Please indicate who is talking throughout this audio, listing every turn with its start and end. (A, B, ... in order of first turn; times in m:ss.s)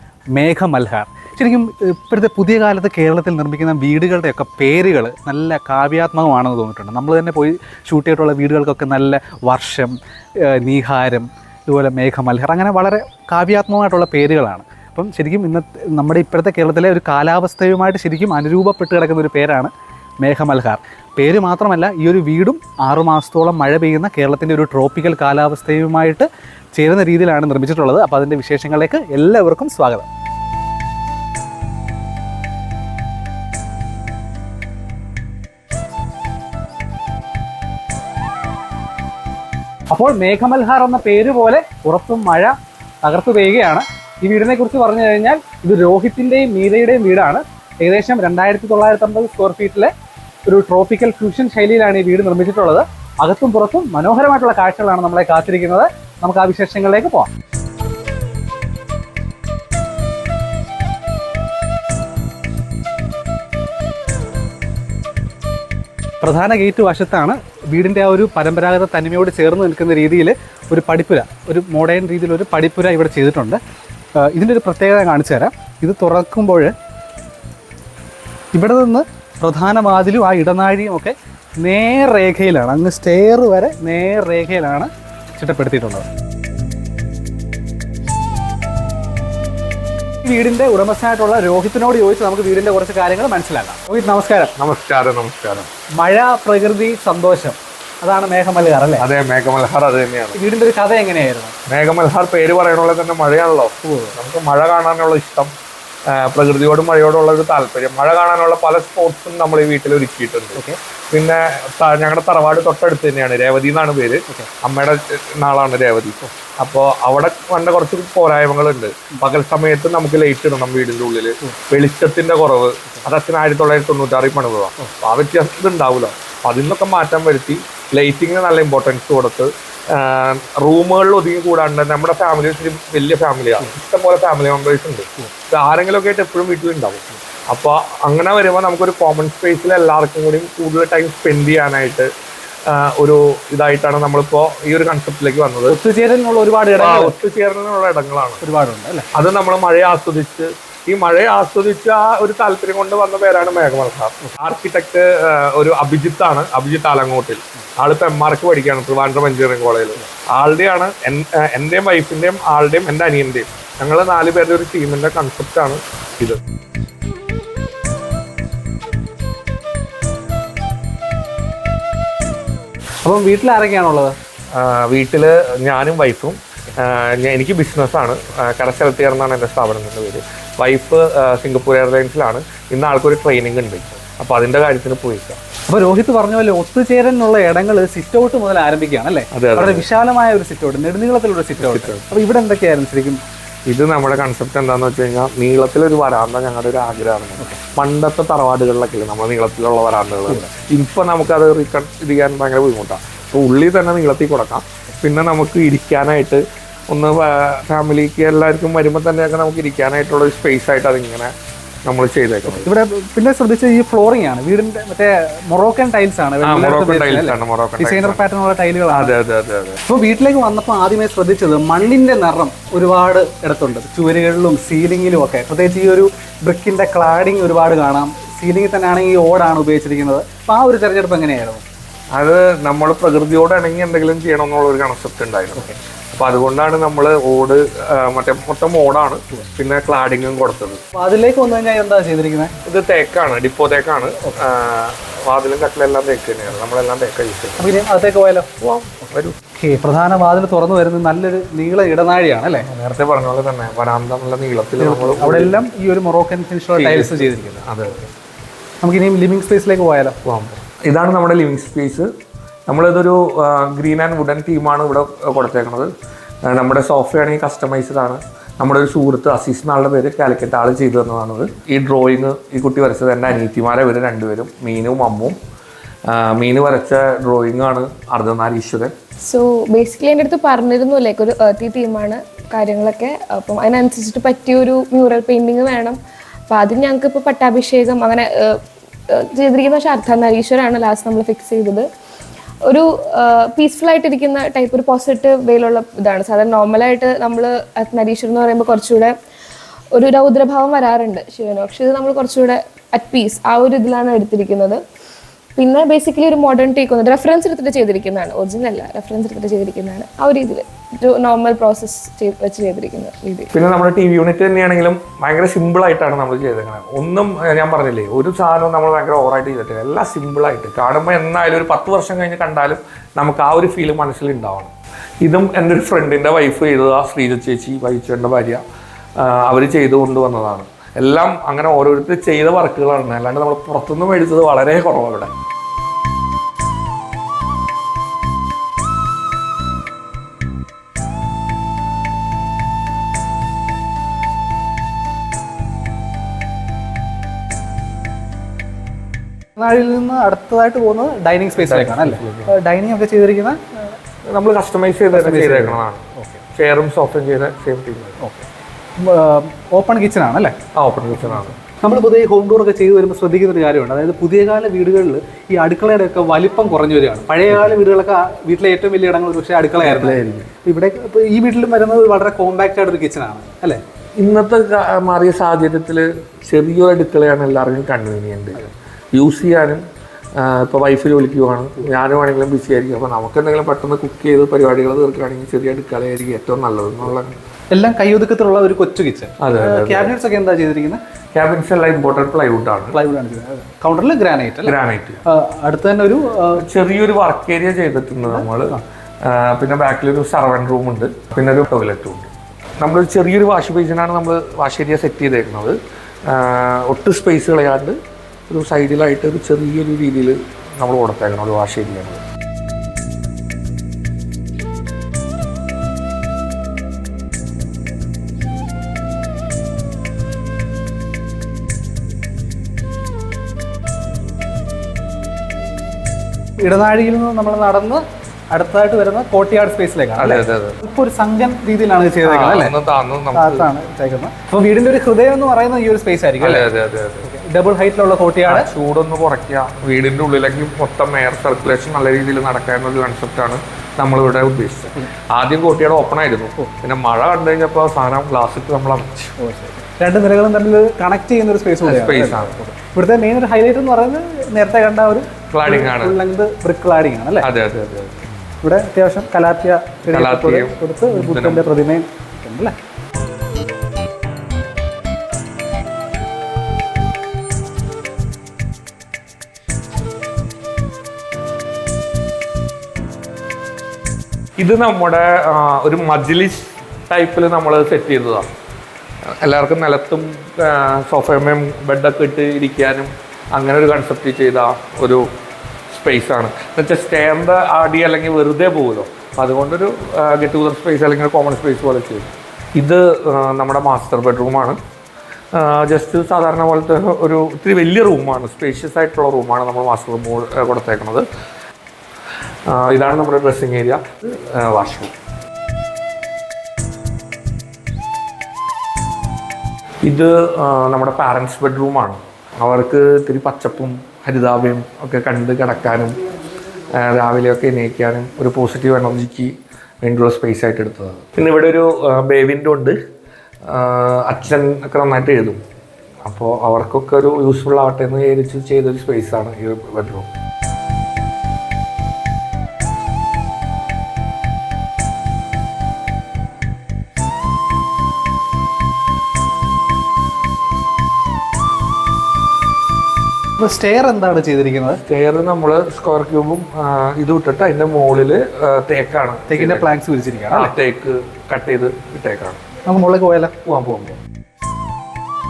0:00.3-0:30.1 A
0:39.9-0:49.9 A
0:50.4-0:57.3 A
1:06.2-1:13.6 A
1:14.2-1:16.7 A
1:18.5-1:26.1 A
1:30.2-1:34.5 A
1:34.6-1:35.7 B
1:36.0-1:39.1 A
1:39.0-1:40.4 B
1:40.3-1:41.5 A
1:41.7-1:45.5 B
1:43.8-1:44.2 A
1:46.1-2:22.1 B
2:22.7-2:25.8 B
2:25.7-2:27.2 A
2:26.8-2:28.4 B
2:28.4-2:29.1 A
2:29.1-2:46.4 B
2:53.0-2:54.2 A
2:54.5-3:05.4 B
3:05.7-3:13.2 A
3:09.3-3:09.8 B
3:11.6-3:12.0 B
3:13.7-3:31.3 B
3:31.8-3:32.7 B
3:32.5-3:39.1 A
3:36.4-3:38.2 B
3:38.9-3:39.8 B
3:39.9-3:51.6 A
3:52.1-4:00.8 B
4:00.9-4:02.5 A
4:02.6-4:07.7 B
4:07.6-4:08.5 A
4:08.6-4:09.4 B
4:09.5-4:12.7 A
4:12.7-4:15.6 B
4:14.8-4:17.6 A
4:16.7-4:18.1 B
4:18.8-4:20.2 A
4:20.2-4:22.1 B
4:22.7-4:25.9 B
4:26.5-4:35.4 B
4:36.1-4:38.9 B
4:39.2-4:46.0 C
4:46.5-4:48.5 C
4:49.1-4:51.8 C
4:52.7-4:59.1 C
4:59.9-5:04.8 C
5:05.6-5:13.5 C
5:13.5-5:24.7 B
5:25.2-5:28.6 B
5:29.2-5:35.3 B
5:49.6-5:53.9 A
5:51.6-5:52.5 B
5:54.3-5:58.2 B
5:55.1-5:56.4 A
5:58.2-6:00.6 A
6:00.7-6:01.6 B
6:01.2-6:13.8 A
6:09.8-6:10.5 B
6:14.2-6:19.8 B
6:20.4-6:27.3 B
6:27.7-6:31.0 A
6:29.4-6:30.1 B
6:31.3-6:33.0 B
6:32.9-6:36.6 A
6:34.6-6:35.2 B
6:36.6-6:45.8 B
6:38.2-6:38.8 A
6:46.3-6:48.0 B
6:48.5-6:52.2 B
7:06.6-7:12.7 A
7:10.2-7:10.8 B
7:12.2-7:13.7 B
7:13.3-7:16.7 A
7:16.4-7:17.3 B
7:17.2-7:18.7 A
7:18.5-7:29.3 B
7:29.4-7:37.5 A
7:31.8-7:32.6 B
7:35.5-7:36.2 B
7:37.4-7:38.2 B
7:38.6-7:42.7 A
7:40.1-7:41.7 B
7:54.6-7:58.5 B
7:59.4-8:05.2 B
8:05.9-8:14.8 B
8:15.5-8:21.2 B
8:22.7-8:25.1 B
8:30.0-8:36.2 B
8:36.9-8:39.5 B
8:40.0-8:43.0 B
8:43.7-8:45.6 B
8:46.2-8:50.3 B
9:03.6-9:05.0 A
9:04.9-9:09.9 B
9:09.5-9:10.7 A
9:10.5-9:12.6 B
9:12.9-9:13.5 A
9:13.6-9:14.2 B